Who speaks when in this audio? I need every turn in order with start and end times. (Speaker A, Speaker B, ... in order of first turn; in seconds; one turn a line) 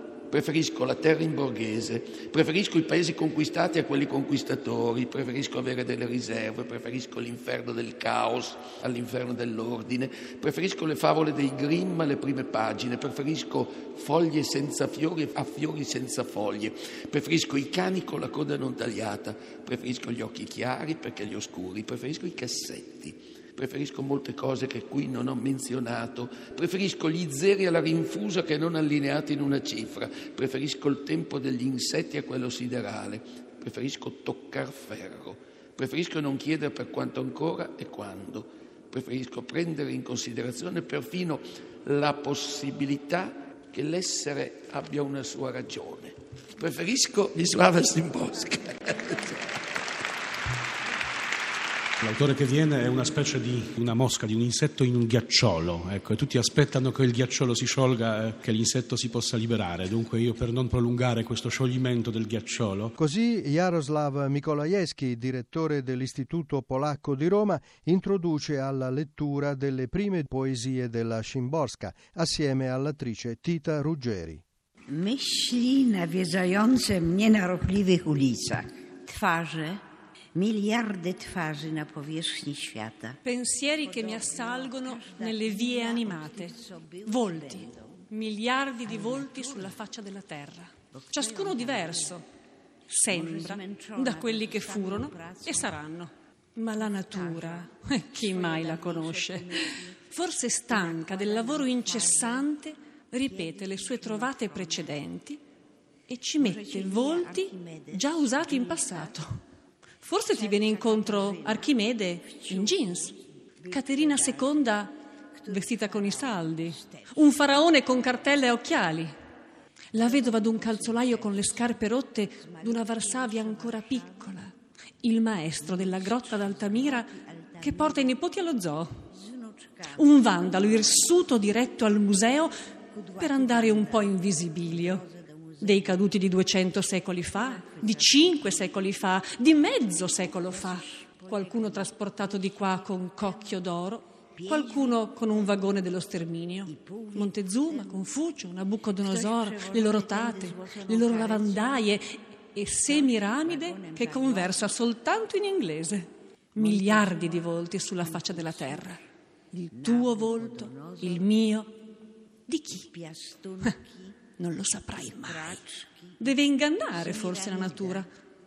Speaker A: 0.3-49.5
Speaker B: 52.0-63.0
Speaker C: 63.0-74.4
Speaker D: 74.9-79.8
Speaker D: 80.3-83.2
Speaker E: 83.3-86.5
Speaker D: 83.8-88.1
Speaker E: 87.1-92.2
Speaker D: 88.9-89.8
Speaker D: 91.0-92.1
Speaker E: 92.9-99.5
Speaker D: 93.1-95.8
Speaker D: 96.7-102.5
Speaker E: 100.1-105.4
Speaker D: 103.2-105.0
Speaker E: 106.1-109.4
Speaker D: 106.4-109.2
Speaker E: 110.0-113.2
Speaker D: 110.3-113.1
Speaker D: 113.6-114.8
Speaker E: 113.7-115.0
Speaker D: 115.4-118.5
Speaker E: 115.5-119.1
Speaker E: 119.9-124.5
Speaker D: 120.0-124.4
Speaker E: 125.0-128.9
Speaker D: 125.6-128.2
Speaker D: 129.1-132.2
Speaker E: 130.0-132.5
Speaker D: 132.9-138.9
Speaker E: 133.2-135.0
Speaker E: 135.6-159.0
Speaker D: 139.6-143.7
Speaker D: 144.4-146.1
Speaker D: 146.7-151.9
Speaker D: 152.9-154.7
Speaker D: 156.6-157.5
Speaker D: 158.0-158.9
Speaker D: 159.6-161.3
Speaker E: 159.8-161.7
Speaker E: 162.5-162.9
Speaker D: 162.9-164.1
Speaker E: 164.4-165.6
Speaker D: 165.0-166.2
Speaker E: 166.2-168.1
Speaker D: 166.9-168.0